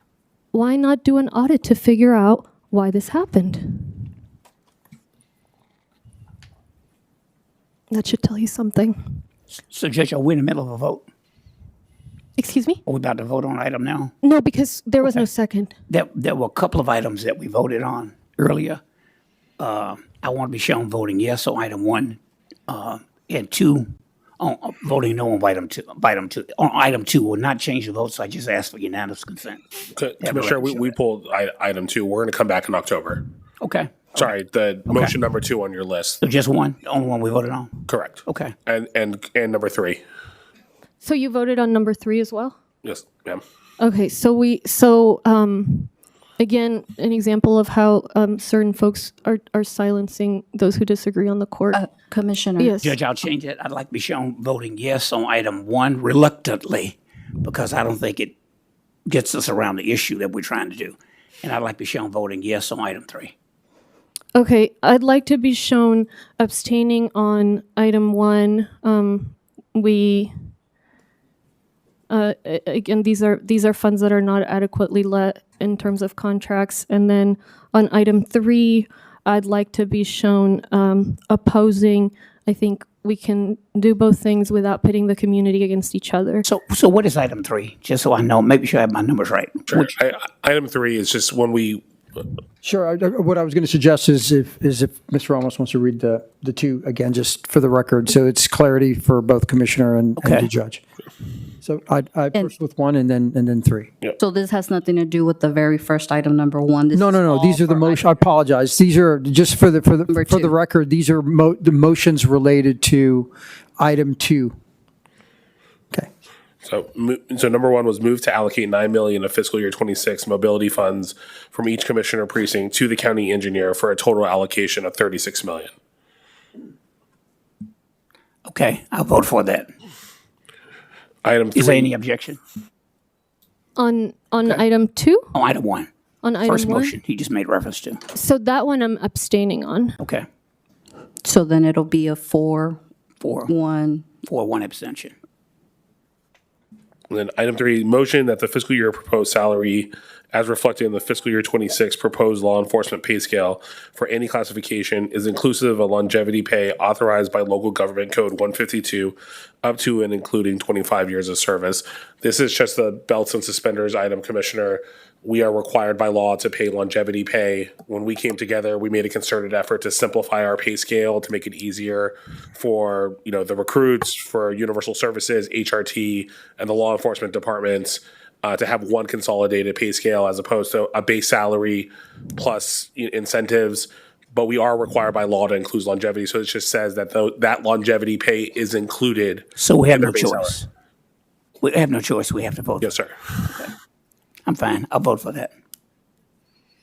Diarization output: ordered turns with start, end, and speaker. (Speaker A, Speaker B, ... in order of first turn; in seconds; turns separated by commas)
Speaker A: 0.5-4.0, Speaker A: 7.9-9.0, Speaker B: 9.7-11.1, Speaker A: 12.4-12.8, Speaker B: 12.9-14.1, Speaker A: 14.2-15.7, Speaker B: 15.9-18.8, Speaker B: 19.6-23.9, Speaker B: 24.4-29.6, Speaker C: 30.0-33.2, Speaker B: 30.2-30.9, Speaker B: 33.6-34.3, Speaker C: 34.1-36.2, Speaker B: 34.9-35.2, Speaker B: 36.2-37.7, Speaker C: 37.9-40.0, Speaker B: 38.3-38.5, Speaker A: 41.0-42.6, Speaker C: 42.8-43.4, Speaker A: 43.8-51.8, Speaker D: 51.7-52.8, Speaker A: 52.6-53.0, Speaker B: 52.8-58.3, Speaker B: 59.1-63.3, Speaker A: 64.3-70.3, Speaker A: 72.1-86.5, Speaker B: 86.5-89.9, Speaker C: 89.7-91.8, Speaker E: 92.6-100.8, Speaker B: 100.2-100.5, Speaker E: 101.6-103.9, Speaker D: 104.2-108.1, Speaker E: 106.9-114.6, Speaker D: 110.1-110.5, Speaker C: 116.6-125.7, Speaker B: 128.5-129.7, Speaker C: 131.2-131.9, Speaker B: 131.5-132.4, Speaker A: 133.8-135.3, Speaker B: 135.3-135.9, Speaker A: 136.2-137.0, Speaker B: 136.4-138.0, Speaker A: 138.1-140.0, Speaker B: 140.0-140.2, Speaker D: 141.2-142.8, Speaker B: 143.2-143.5, Speaker D: 143.5-144.2, Speaker B: 144.2-145.2, Speaker C: 147.1-190.6, Speaker B: 189.6-190.7, Speaker B: 191.6-192.9, Speaker C: 192.8-193.6, Speaker B: 194.5-195.5